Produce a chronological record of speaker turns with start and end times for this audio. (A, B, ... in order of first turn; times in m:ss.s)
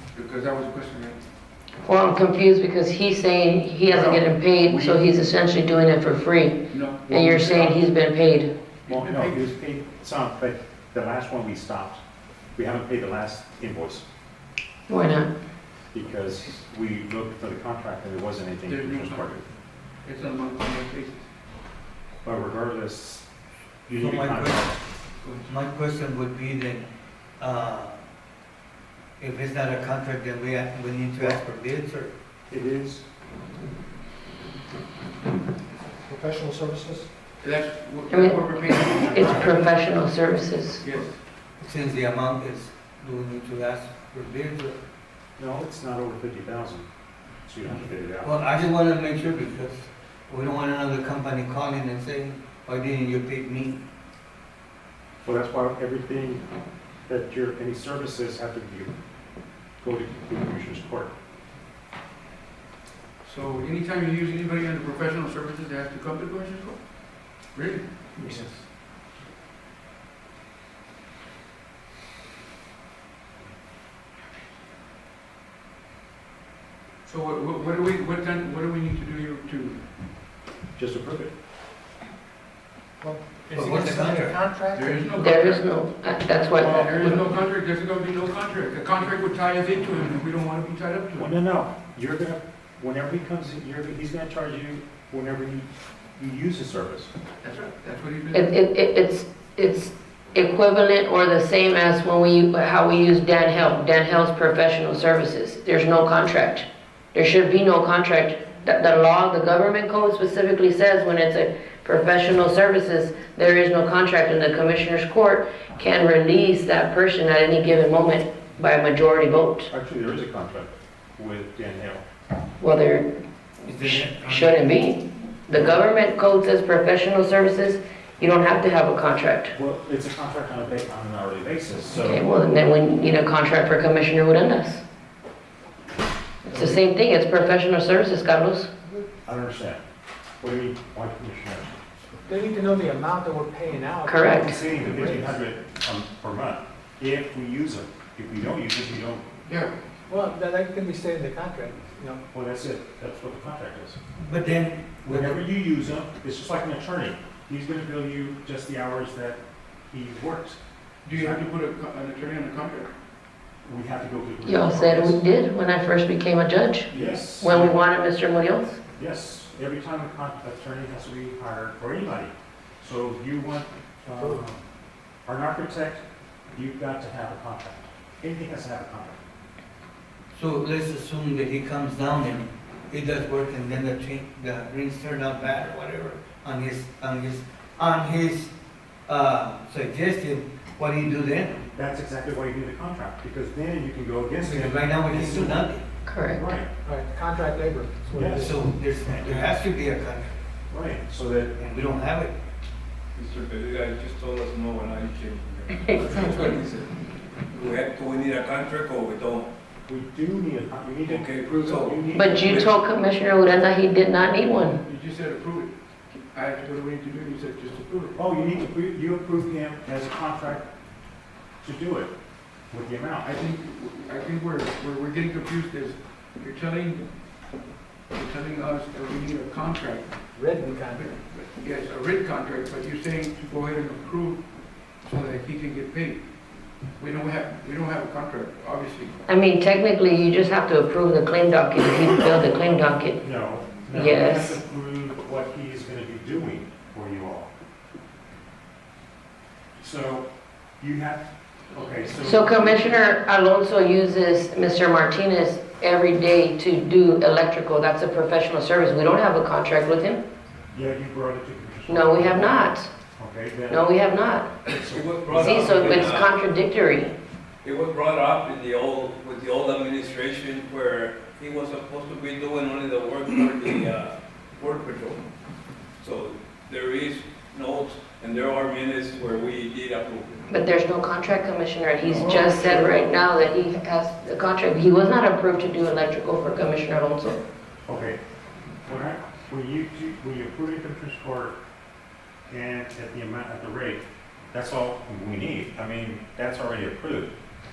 0:00.1-0:01.2 A
0:01.8-0:08.5 B
0:03.9-0:05.0 C
0:06.7-0:07.6 A
0:07.2-0:07.8 C
0:08.9-0:09.5 A
0:08.9-0:12.0 C
0:12.6-0:14.0 C
0:14.9-0:15.3 B
0:15.9-0:19.4 C
0:18.7-0:19.4 A
0:20.0-0:21.3 A
0:22.2-0:23.3 C
0:23.9-0:24.8 C
0:23.9-0:24.8 D
0:25.4-0:26.9 D
0:27.4-0:28.0 D
0:29.2-0:32.1 D
0:32.5-0:33.0 C
0:36.1-0:37.1 E
0:37.4-0:39.7 A
0:38.1-0:40.8 B
0:39.1-0:39.5 C
0:40.8-0:41.2 A
0:41.6-0:44.8 D
0:45.4-0:46.9 C
0:47.4-0:48.3 C
0:48.2-0:53.8 D
0:55.2-0:56.4 C
0:57.1-0:58.9 C
0:59.8-1:01.1 C
1:03.2-1:08.6 A
1:08.2-1:08.5 C
1:17.0-1:19.8 A
1:20.8-1:21.3 C
1:23.0-1:25.2 E
1:23.5-1:24.4 D
1:24.8-1:25.7 A
1:25.2-1:27.2 B
1:26.4-1:31.3 A
1:26.6-1:27.2 C
1:31.2-1:37.1 C
1:37.4-1:38.5 A
1:38.3-1:59.7 B
1:59.7-2:02.0 C
2:02.6-2:03.1 B
2:03.6-2:04.7 D
2:03.8-2:09.5 B
2:09.5-2:12.2 C
2:12.0-2:14.8 B
2:16.4-2:18.7 B
2:16.5-2:16.8 C
2:19.2-2:19.8 C
2:20.4-2:21.8 C
2:22.3-2:25.3 E
2:24.1-2:24.6 B
2:24.2-2:29.2 C
2:29.5-2:29.8 A
2:30.1-2:32.2 E
2:32.3-2:34.0 C
2:34.2-2:35.4 D
2:35.0-2:39.4 C
2:39.9-2:40.6 C
2:41.0-2:42.9 A
2:41.1-2:41.4 C
2:43.6-2:45.2 C
2:44.4-2:48.8 B
2:46.9-2:47.8 C
2:49.0-2:54.6 C
2:55.3-2:59.2 C
3:00.3-3:08.5 D
3:09.1-3:11.6 D
3:11.7-3:15.6 C
3:14.4-3:15.8 D
3:16.1-3:16.4 B
3:16.3-3:16.7 C
3:16.8-3:18.6 E
3:18.1-3:19.5 C
3:18.3-3:20.4 D
3:20.7-3:21.6 C
3:21.6-3:22.3 D
3:23.2-3:26.9 F
3:25.9-3:26.6 B
3:27.5-3:29.5 F
3:29.9-3:32.7 C
3:31.0-3:32.7 F
3:32.1-3:34.8 B
3:34.8-3:35.7 A
3:36.3-3:38.2 A
3:38.2-3:40.7 C
3:41.6-3:42.1 C
3:42.7-3:43.4 C
3:43.3-3:47.1 A
3:48.1-3:54.4 A
3:50.3-3:51.2 E
3:55.0-3:56.2 A
3:57.0-3:59.2 A
3:59.3-4:03.2 B
4:03.2-4:07.5 C
4:03.9-4:04.6 B
4:09.8-4:10.3 C
4:10.8-4:13.0 C
4:12.2-4:20.2 B
4:20.7-4:23.9 C
4:21.9-4:22.9 B
4:23.7-4:24.6 B
4:24.7-4:26.2 C
4:24.8-4:26.3 F
4:25.3-4:27.2 B
4:27.6-4:35.2 F
4:36.0-4:40.5 F
4:40.5-4:47.4 B
4:42.0-4:43.2 C
4:47.9-4:48.2 C
4:48.9-4:51.6 C
4:52.5-4:57.3 C